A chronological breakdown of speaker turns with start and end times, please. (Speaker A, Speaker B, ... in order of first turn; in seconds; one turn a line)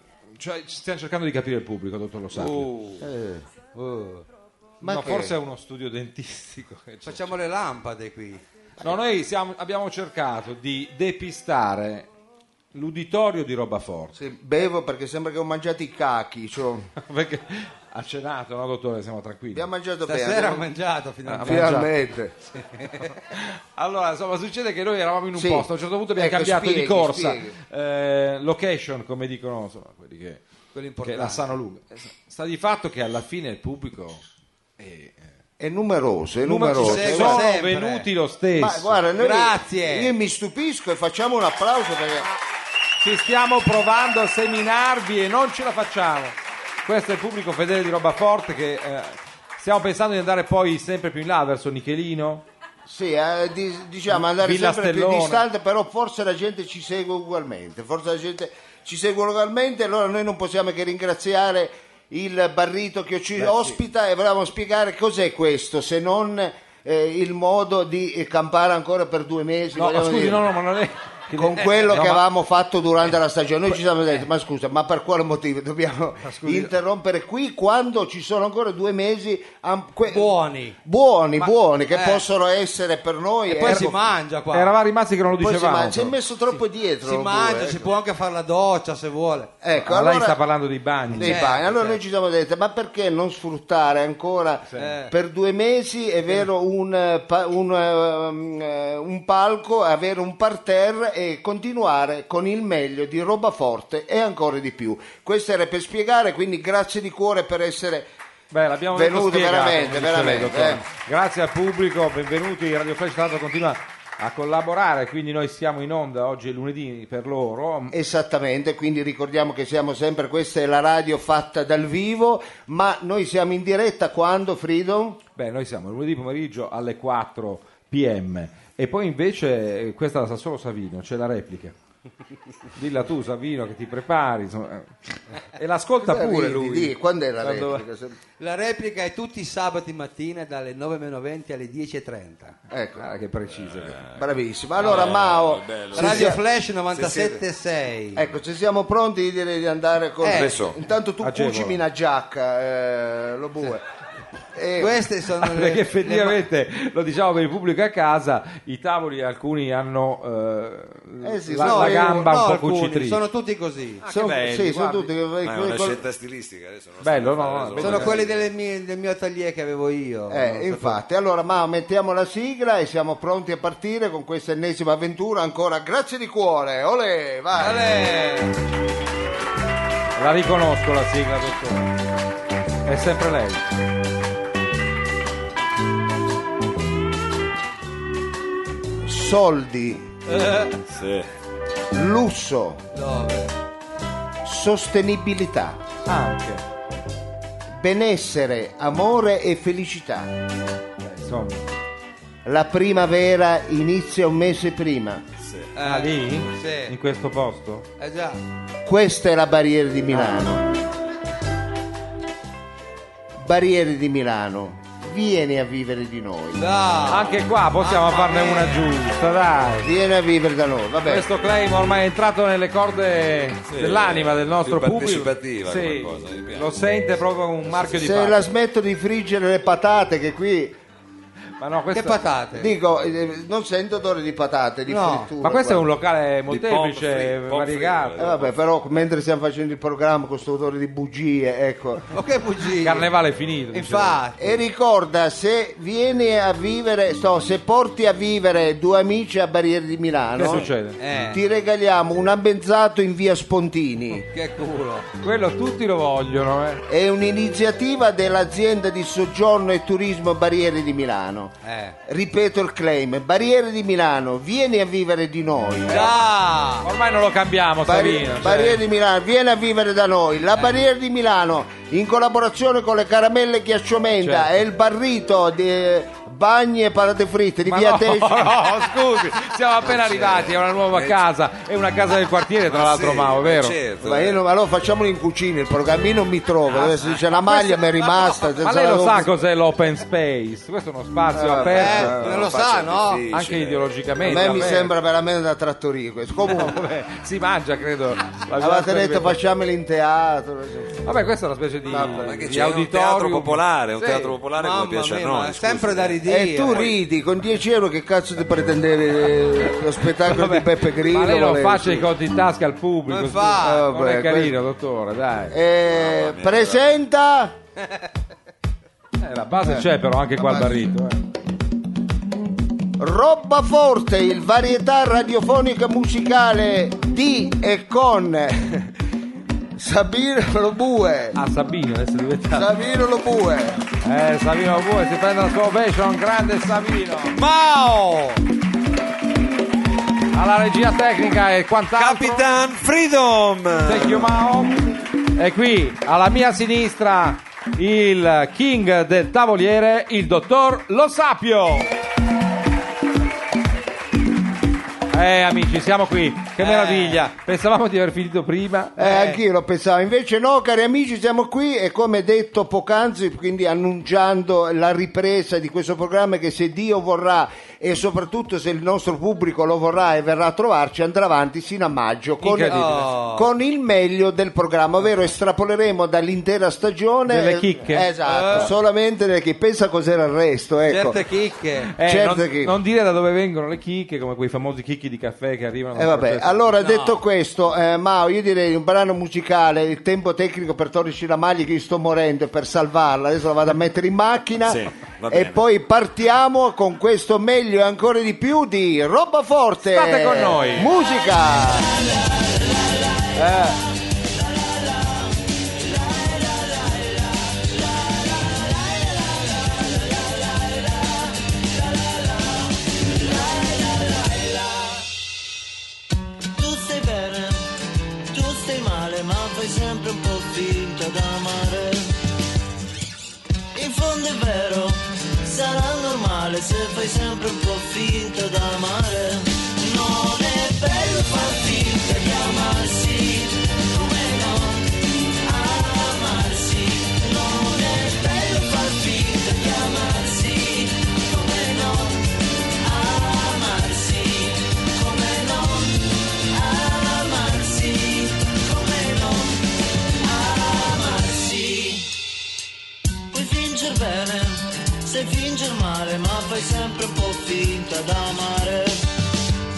Speaker A: 0.4-2.7
Speaker B: 2.5-3.0
Speaker C: 3.0-3.4
Speaker B: 3.7-4.2
Speaker C: 4.8-5.4
Speaker A: 4.8-7.3
Speaker B: 7.0-8.4
Speaker A: 8.8-12.1
Speaker A: 12.7-14.2
Speaker C: 14.1-16.9
Speaker A: 17.0-19.7
Speaker C: 19.5-20.7
Speaker B: 20.1-21.9
Speaker A: 21.2-21.9
Speaker C: 21.4-22.4
Speaker B: 22.7-23.1
Speaker A: 23.3-30.4
Speaker C: 25.3-27.6
Speaker B: 30.7-31.4
Speaker A: 31.0-34.2
Speaker A: 34.8-35.2
Speaker C: 35.6-37.4
Speaker A: 36.4-39.0
Speaker B: 36.8-38.1
Speaker C: 38.5-42.3
Speaker B: 39.2-40.1
Speaker A: 43.0-52.4
Speaker C: 52.9-70.5
Speaker A: 54.1-55.4
Speaker A: 63.4-63.7
Speaker A: 69.7-72.2
Speaker C: 71.3-84.0
Speaker A: 76.2-76.7
Speaker B: 80.1-80.7
Speaker B: 81.9-82.2
Speaker B: 83.5-84.7
Speaker A: 84.5-86.1
Speaker C: 85.4-87.9
Speaker B: 87.0-89.5
Speaker C: 89.6-90.4
Speaker A: 89.8-91.4
Speaker C: 91.1-108.1
Speaker B: 91.2-92.0
Speaker B: 94.8-95.1
Speaker A: 108.5-117.9
Speaker C: 108.9-110.8
Speaker C: 117.9-125.2
Speaker A: 125.3-131.7
Speaker A: 132.8-134.9
Speaker A: 135.5-137.8
Speaker C: 136.0-138.2
Speaker B: 138.4-142.6
Speaker C: 142.7-143.1
Speaker A: 142.9-144.0
Speaker D: 143.5-144.2
Speaker C: 144.1-146.4
Speaker D: 144.8-146.4
Speaker B: 144.8-145.1
Speaker B: 145.9-148.2
Speaker D: 146.9-147.4
Speaker C: 148.1-153.8
Speaker B: 150.2-150.6
Speaker D: 150.3-150.8
Speaker A: 151.2-151.8
Speaker C: 154.5-155.0
Speaker B: 154.8-156.4
Speaker A: 155.4-163.2
Speaker C: 161.2-162.2
Speaker B: 161.6-164.0
Speaker A: 164.0-165.1
Speaker C: 164.1-166.0
Speaker D: 165.4-168.5
Speaker A: 167.0-168.2
Speaker B: 167.8-171.0
Speaker C: 170.3-177.9
Speaker B: 177.6-178.5
Speaker A: 180.2-181.9
Speaker A: 182.8-183.6
Speaker C: 189.0-190.1
Speaker B: 190.3-190.8
Speaker D: 190.8-191.3
Speaker C: 191.9-192.8
Speaker B: 192.9-193.5
Speaker C: 194.4-195.8
Speaker A: 196.1-196.6
Speaker C: 197.8-200.3
Speaker A: 201.0-201.6
Speaker C: 202.4-205.2
Speaker D: 205.4-205.7
Speaker B: 205.7-206.9
Speaker A: 205.8-207.8
Speaker B: 208.0-208.4
Speaker C: 208.8-210.7
Speaker C: 213.4-216.7
Speaker B: 216.6-218.9
Speaker A: 217.1-219.9
Speaker C: 219.8-221.2
Speaker A: 221.1-228.4
Speaker D: 223.7-226.7
Speaker C: 227.9-230.8
Speaker A: 231.6-232.2
Speaker B: 231.9-232.7
Speaker C: 232.6-235.9
Speaker B: 234.9-235.3
Speaker A: 235.4-238.2
Speaker D: 236.5-238.5
Speaker C: 238.2-242.1
Speaker B: 242.1-243.1
Speaker A: 242.8-244.2
Speaker B: 243.7-244.6
Speaker C: 244.4-254.2
Speaker A: 250.4-251.0
Speaker B: 251.0-251.4
Speaker B: 254.2-255.1
Speaker A: 255.2-256.8
Speaker C: 256.9-261.5
Speaker B: 261.6-261.9
Speaker C: 262.1-266.2
Speaker B: 265.9-266.9
Speaker A: 266.8-268.8
Speaker C: 267.8-278.6
Speaker A: 274.2-274.5
Speaker A: 277.6-283.8
Speaker D: 279.8-281.2
Speaker D: 282.6-284.4
Speaker C: 284.0-289.3
Speaker A: 287.5-292.2
Speaker C: 291.3-292.2
Speaker D: 291.7-293.9
Speaker B: 291.7-293.2
Speaker A: 293.3-294.9
Speaker C: 294.2-296.8
Speaker A: 296.4-299.4
Speaker C: 298.6-301.1
Speaker A: 301.0-304.4
Speaker C: 301.9-302.4
Speaker D: 301.9-306.2
Speaker B: 304.5-306.9
Speaker C: 306.2-312.1
Speaker A: 310.2-315.6
Speaker B: 313.1-313.9
Speaker C: 313.6-314.6
Speaker C: 315.5-317.6
Speaker D: 315.9-316.8
Speaker A: 319.2-321.2
Speaker C: 319.6-320.9
Speaker C: 323.0-328.9
Speaker C: 329.7-331.4
Speaker A: 331.3-332.7
Speaker C: 332.5-333.8
Speaker A: 334.0-337.4
Speaker B: 337.3-338.4
Speaker A: 340.3-342.4
Speaker D: 341.9-344.3
Speaker A: 343.8-351.9
Speaker A: 355.1-359.0
Speaker B: 356.6-357.2
Speaker C: 359.0-381.2
Speaker B: 359.0-359.4
Speaker A: 372.4-373.1
Speaker B: 372.7-373.4
Speaker A: 377.3-378.7
Speaker B: 378.2-378.7
Speaker B: 380.9-381.9
Speaker A: 381.9-386.6
Speaker C: 382.0-382.8
Speaker C: 385.9-401.9
Speaker B: 386.8-387.2
Speaker D: 394.6-395.6
Speaker A: 399.9-400.9
Speaker E: 401.8-415.0
Speaker A: 403.4-403.8
Speaker E: 416.6-417.7
Speaker E: 418.3-422.1
Speaker E: 423.7-452.1
Speaker E: 453.3-459.1